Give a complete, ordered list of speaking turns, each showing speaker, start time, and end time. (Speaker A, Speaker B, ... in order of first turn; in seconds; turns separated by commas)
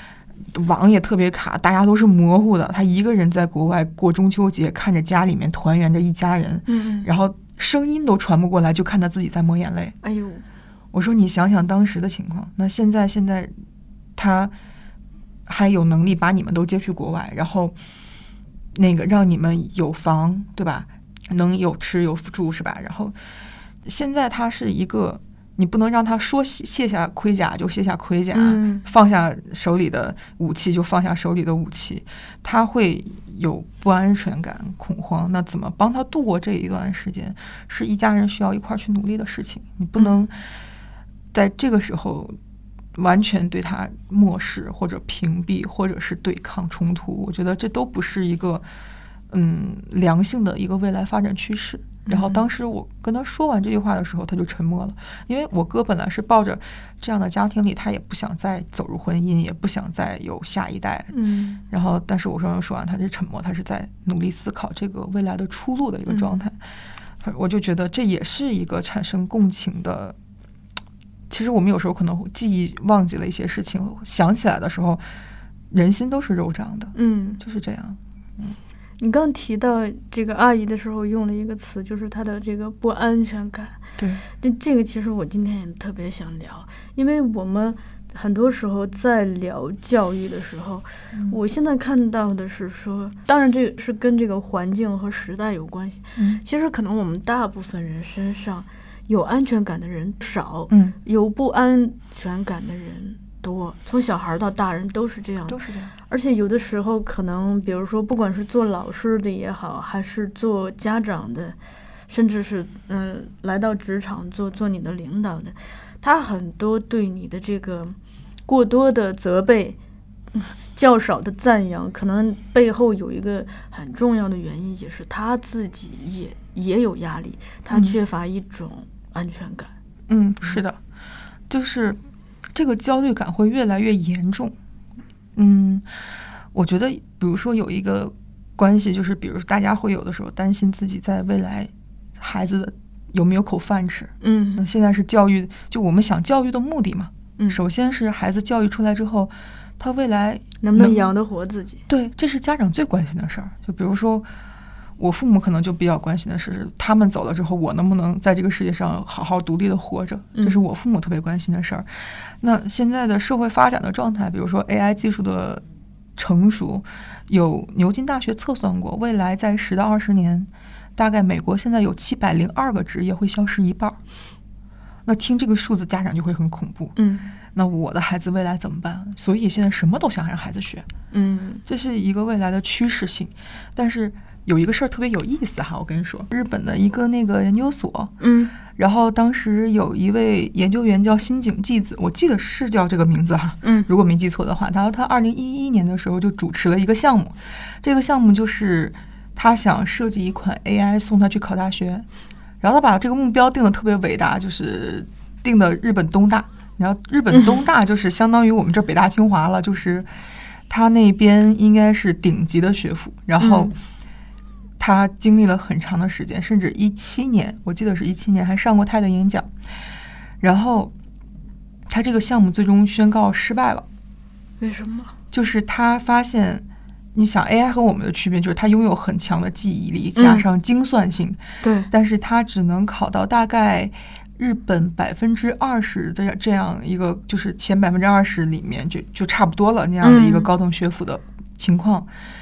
Speaker A: 0.5-9.9, Speaker B: 6.7-7.1, Speaker B: 10.0-10.4, Speaker A: 10.9-13.5, Speaker A: 14.2-14.5, Speaker A: 15.5-17.8, Speaker A: 18.7-23.1, Speaker A: 23.8-40.4, Speaker B: 28.3-28.9, Speaker A: 41.3-42.3, Speaker A: 43.0-48.6, Speaker A: 49.3-61.1, Speaker B: 52.0-52.4, Speaker B: 61.1-61.6, Speaker A: 61.7-66.6, Speaker A: 67.2-70.2, Speaker A: 71.3-75.0, Speaker A: 75.7-78.6, Speaker B: 76.9-77.4, Speaker B: 79.0-83.8, Speaker A: 84.0-84.2, Speaker B: 84.3-111.5, Speaker A: 91.1-91.4, Speaker A: 96.2-96.4, Speaker A: 100.7-101.0, Speaker A: 105.5-105.9, Speaker B: 112.1-118.0, Speaker B: 118.5-119.8, Speaker B: 120.3-129.7, Speaker A: 127.7-128.0, Speaker A: 130.1-130.8, Speaker A: 131.5-132.0, Speaker A: 132.5-134.5, Speaker A: 135.3-135.8, Speaker A: 136.5-151.0, Speaker B: 144.2-144.6, Speaker B: 150.6-151.8, Speaker A: 151.9-154.3, Speaker A: 155.0-165.6, Speaker B: 160.3-160.6, Speaker A: 166.2-174.0, Speaker A: 175.1-176.9, Speaker B: 176.9-177.3, Speaker A: 177.5-180.9, Speaker B: 181.1-181.6, Speaker A: 181.7-188.1, Speaker B: 188.2-188.5, Speaker A: 188.7-202.1, Speaker B: 193.6-193.9, Speaker A: 202.6-210.1, Speaker B: 207.3-207.6, Speaker A: 210.7-213.7, Speaker B: 213.4-213.7, Speaker A: 214.8-219.5, Speaker A: 220.4-220.9, Speaker A: 221.9-223.8, Speaker B: 224.6-225.1, Speaker A: 225.3-242.1, Speaker B: 230.2-230.4, Speaker B: 231.6-231.9, Speaker B: 240.0-240.5